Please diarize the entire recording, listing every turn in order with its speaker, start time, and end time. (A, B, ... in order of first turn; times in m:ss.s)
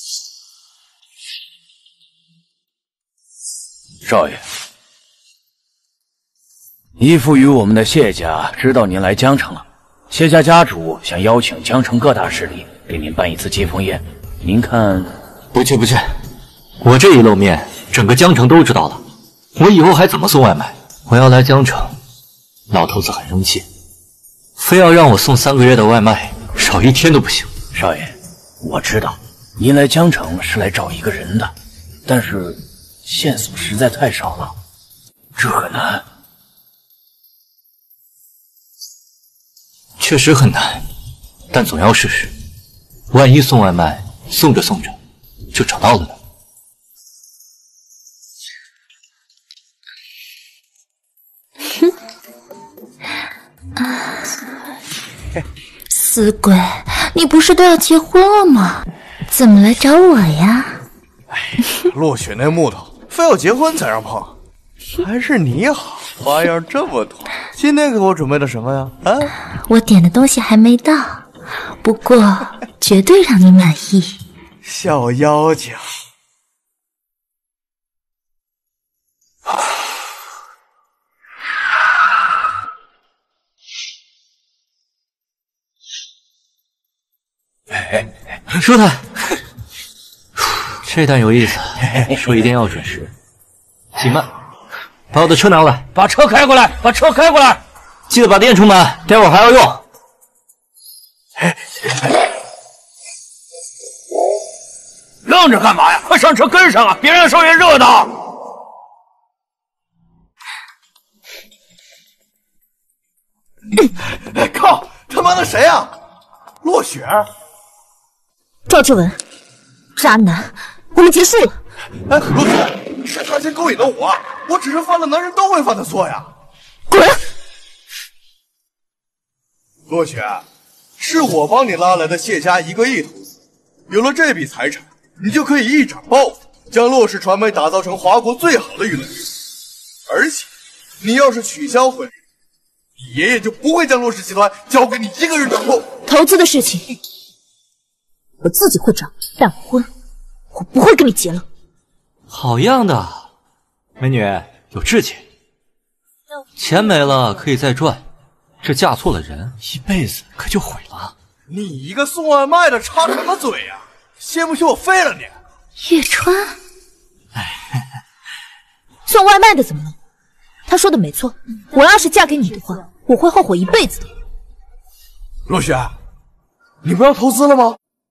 0:04.0-0:04.4 A
0:07.0-0:15.2 A
0:15.5-0:16.1 B
0:16.8-0:19.0 B
0:19.5-0:22.0 B
0:22.7-0:23.6 B
0:24.6-0:27.5 B
0:27.7-0:31.5 A
0:32.0-0:34.5 A
0:35.4-0:36.0 A
0:40.0-0:40.8 B
0:41.5-0:42.3 B
0:43.1-0:45.0 B
0:45.5-0:46.2 B
0:53.9-0:54.2 C
0:55.9-1:00.8 C
1:01.8-1:04.4 D
1:05.0-1:09.3 D
1:09.4-1:11.3 C
1:11.8-1:14.2 C
1:14.6-1:15.9 D
1:27.7-1:28.1 A
1:28.5-1:29.3 B
1:30.4-1:33.1 B
1:31.8-1:32.2 A
1:34.0-1:34.3 B
1:35.1-1:35.9 B
1:35.9-1:37.6 A
1:38.1-1:39.8 B
1:45.2-1:48.2 A
1:54.0-1:56.0 D
1:56.6-1:57.3 D
1:58.7-1:59.2 C
2:00.0-2:01.6 C
2:02.1-2:06.3 D
2:06.9-2:07.3 C
2:09.9-2:10.4 D
2:11.0-2:13.3 D
2:13.9-2:19.3 D
2:20.1-2:20.5 D
2:21.0-2:22.1 D
2:23.0-2:26.0 D
2:26.0-2:26.9 C
2:28.4-2:29.9 C
2:30.5-2:31.4 C
2:32.3-2:33.3 B
2:34.0-2:35.2 B
2:36.6-2:38.0 B
2:38.6-2:41.1 B
2:41.5-2:45.3 D
2:45.8-2:46.6 C
2:49.0-2:50.0 C
2:50.7-2:54.1 C
2:55.5-2:56.0 D
2:56.8-2:57.8 D